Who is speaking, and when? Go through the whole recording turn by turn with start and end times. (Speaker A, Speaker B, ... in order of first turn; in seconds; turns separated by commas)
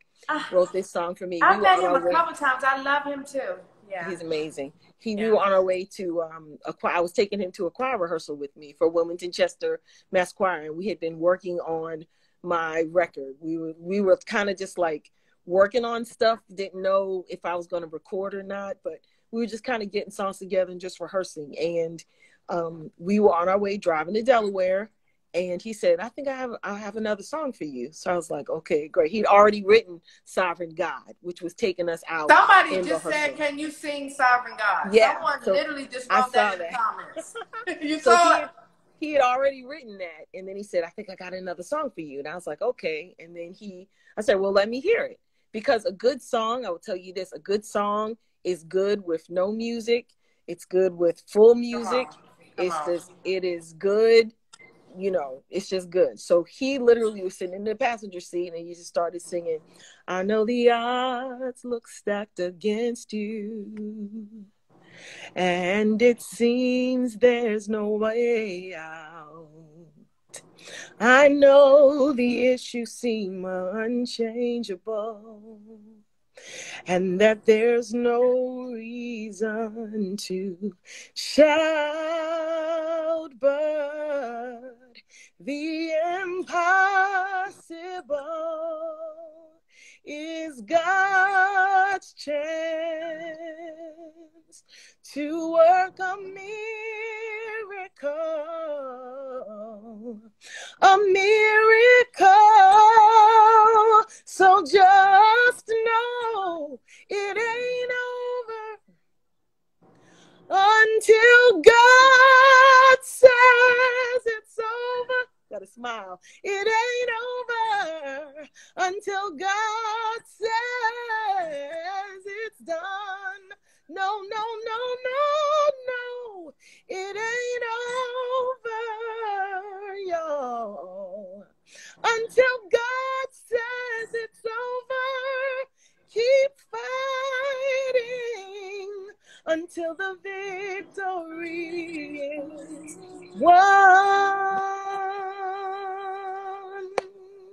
Speaker A: 0.3-0.6, Speaker B: 0.5-2.2, Speaker A: 1.4-4.2, Speaker B: 4.0-33.4, Speaker A: 5.2-5.4, Speaker A: 32.3-38.5, Speaker B: 34.8-36.8, Speaker B: 38.0-54.4, Speaker A: 51.7-53.0, Speaker B: 54.9-64.3, Speaker B: 65.4-69.9, Speaker B: 71.0-75.8, Speaker B: 76.9-84.7, Speaker B: 85.4-89.2, Speaker B: 90.0-93.8, Speaker B: 94.5-100.2, Speaker B: 100.8-108.8, Speaker B: 110.5-131.5, Speaker B: 132.0-142.5, Speaker B: 143.3-147.1